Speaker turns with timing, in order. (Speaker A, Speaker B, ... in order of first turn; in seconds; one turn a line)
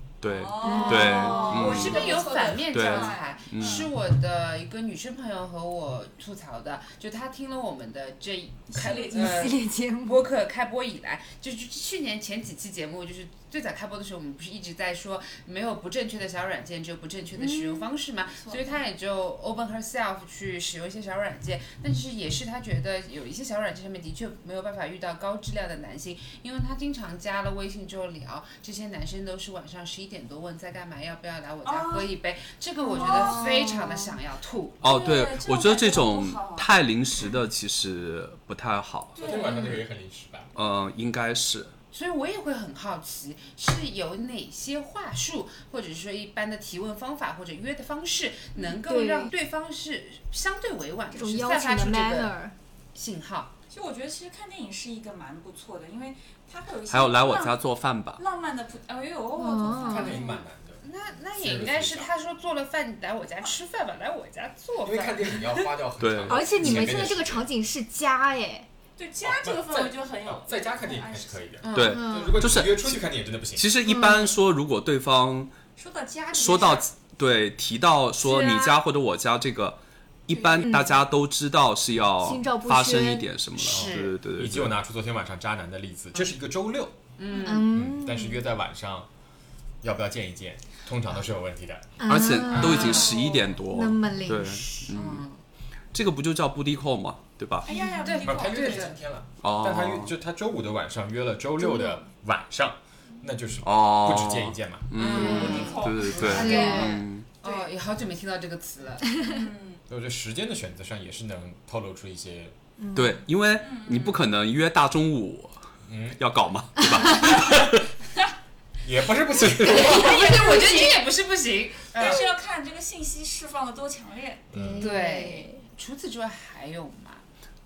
Speaker A: 0.2-3.9
Speaker B: 0.2-3.9
Speaker C: 0.6-1.6
Speaker D: 0.7-34.8
Speaker B: 8.7-9.5
Speaker C: 8.9-10.2
Speaker C: 17.4-17.9
Speaker B: 18.3-18.8
Speaker B: 31.6-32.1
Speaker C: 32.9-34.1
Speaker B: 32.9-33.7
Speaker A: 34.8-39.2
Speaker B: 34.8-36.7
Speaker B: 39.1-39.8
Speaker E: 39.2-40.5
Speaker A: 40.5-41.7
Speaker D: 41.9-52.4
Speaker C: 48.7-49.3
Speaker C: 51.1-52.5
Speaker D: 52.9-53.5
Speaker B: 53.7-57.6
Speaker A: 56.9-58.2
Speaker B: 58.1-60.4
Speaker C: 59.4-60.2
Speaker E: 59.8-62.1
Speaker D: 60.8-65.5
Speaker E: 64.8-67.5
Speaker A: 66.0-66.9
Speaker C: 66.3-68.7
Speaker B: 69.0-71.5
Speaker E: 69.2-73.7
Speaker D: 71.6-72.3
Speaker A: 71.7-75.5
Speaker C: 71.8-72.3
Speaker C: 73.8-74.3
Speaker B: 75.8-76.9
Speaker A: 76.3-84.8
Speaker C: 78.3-78.6
Speaker C: 80.6-81.0
Speaker C: 82.2-83.3
Speaker D: 83.6-84.1
Speaker E: 83.6-87.0
Speaker D: 87.2-87.8
Speaker C: 87.4-88.4
Speaker E: 87.5-89.1
Speaker E: 89.8-92.0
Speaker C: 92.0-93.1
Speaker A: 92.0-95.2
Speaker D: 92.5-93.4
Speaker C: 93.7-94.8
Speaker D: 94.7-95.4
Speaker A: 95.9-97.7
Speaker B: 97.6-98.9
Speaker D: 98.0-98.9
Speaker E: 98.2-105.5
Speaker A: 99.4-100.1
Speaker C: 101.7-102.0
Speaker A: 103.6-107.2
Speaker D: 104.9-109.3
Speaker B: 105.0-106.9
Speaker C: 106.4-106.9
Speaker B: 109.2-109.8
Speaker E: 109.9-112.5
Speaker C: 112.8-113.2
Speaker A: 112.9-115.6
Speaker B: 113.6-114.2
Speaker E: 115.8-116.2
Speaker A: 116.2-117.9
Speaker E: 118.8-120.3
Speaker D: 119.6-122.3
Speaker B: 119.7-121.0
Speaker B: 121.9-125.5
Speaker E: 124.5-124.9
Speaker C: 124.6-125.6
Speaker D: 124.8-127.2